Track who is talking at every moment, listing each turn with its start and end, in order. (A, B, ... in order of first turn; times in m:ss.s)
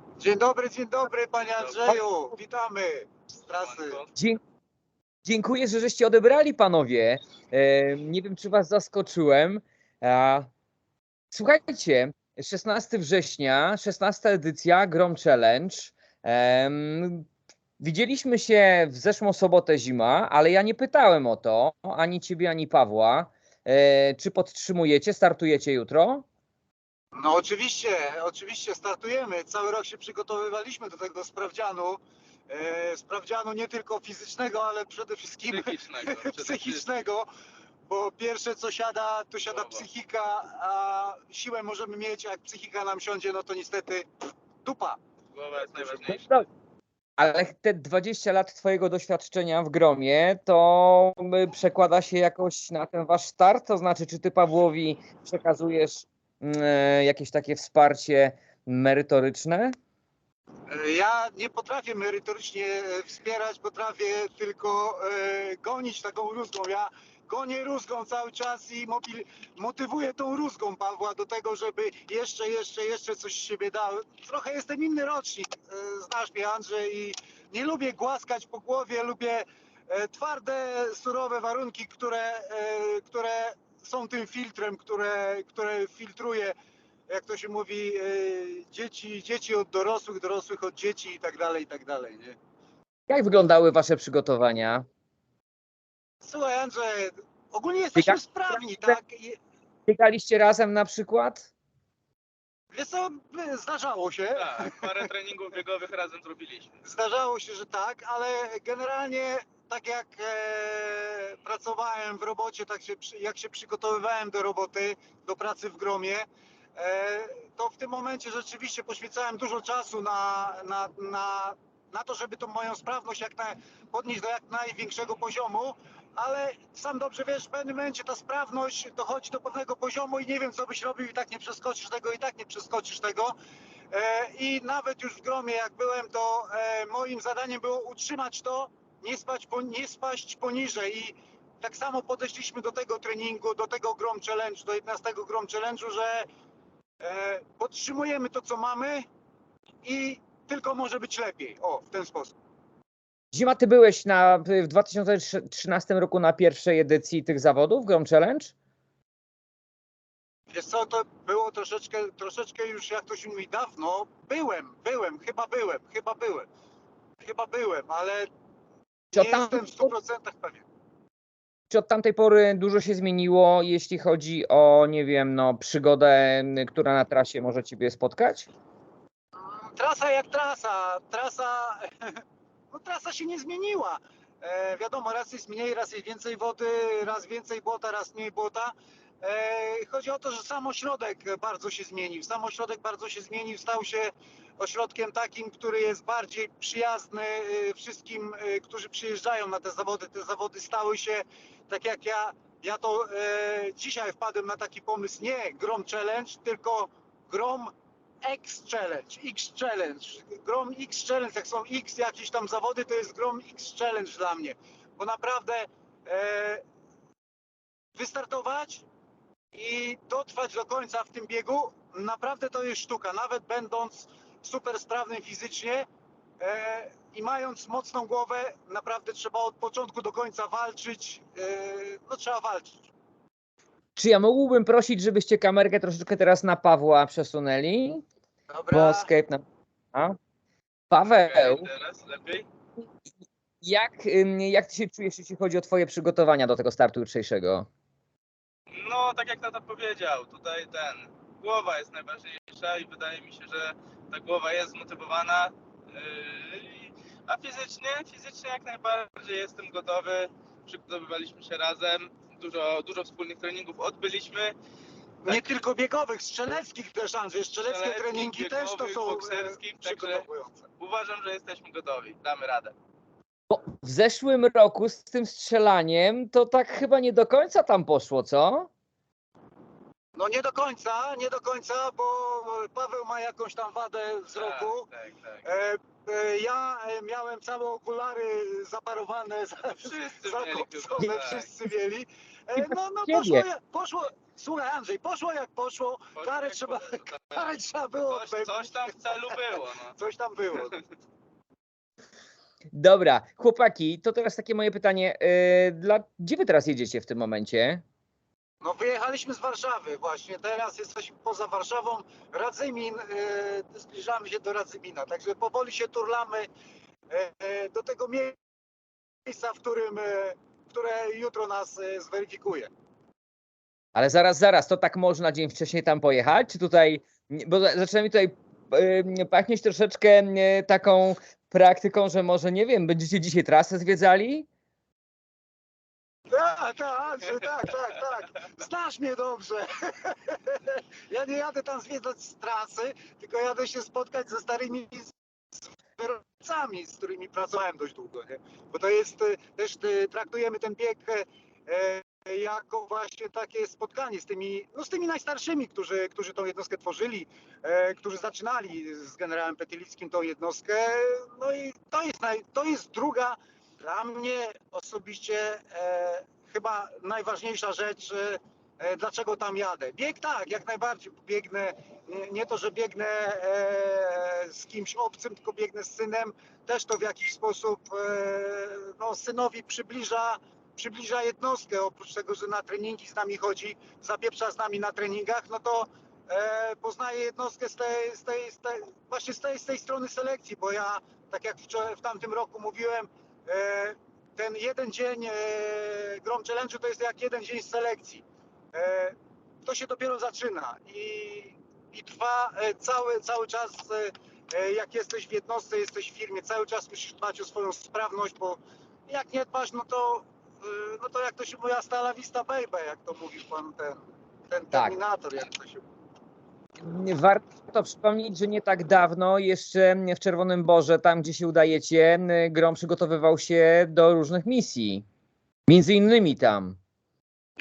0:00.2-0:04.0 A
0:01.6-0:02.0 B
0:03.6-0:04.1 B
0:05.3-0:10.5 C
0:11.3-0:17.3 C
0:17.8-0:26.2 C
0:27.1-0:37.3 A
0:35.5-0:36.9 B
0:37.9-0:44.1 A
0:39.5-0:39.9 B
0:44.6-0:45.0 A
0:45.3-0:46.2 B
0:45.9-0:46.4 C
0:47.2-0:59.8 C
1:00.7-1:26.5 A
1:27.1-1:32.4 A
1:33.1-1:34.8 C
1:36.2-1:39.4 A
1:38.0-1:39.0 C
1:39.9-1:41.5 C
1:42.7-1:44.8 A
1:44.4-1:46.8 B
1:46.8-2:13.4 A
2:13.9-2:26.3 A
2:27.0-2:29.1 A
2:29.8-2:32.4 A
2:33.3-2:38.5 C
2:40.5-2:46.5 A
2:47.2-2:48.3 A
2:49.1-2:50.7 A
2:49.1-2:49.9 C
2:51.7-2:58.5 C
2:59.4-3:27.7 A
3:28.2-3:36.6 A
3:38.0-3:38.9 A
3:39.5-3:45.9 A
3:46.4-3:52.9 A
3:54.0-3:58.0 C
3:58.5-3:59.1 A
3:58.7-3:59.4 C
4:00.9-4:01.7 C
4:01.0-4:02.5 B
4:03.6-4:07.7 C
4:08.7-4:24.6 B
4:25.2-4:30.7 A
4:27.6-4:30.2 B
4:30.8-4:32.7 B
4:33.5-4:38.7 C
4:40.2-4:44.9 A
4:44.3-4:45.5 B
4:45.4-4:59.4 A
4:49.6-4:51.5 B
4:52.6-4:53.4 C
4:56.2-4:57.4 B
4:58.1-5:00.0 B
4:59.9-5:00.8 A
5:02.7-5:07.8 C
5:08.6-5:16.5 A
5:17.1-5:18.4 A
5:19.3-5:22.7 A
5:24.0-5:34.5 C
5:36.3-6:55.8 A
6:56.8-7:05.0 C
7:05.7-7:06.8 C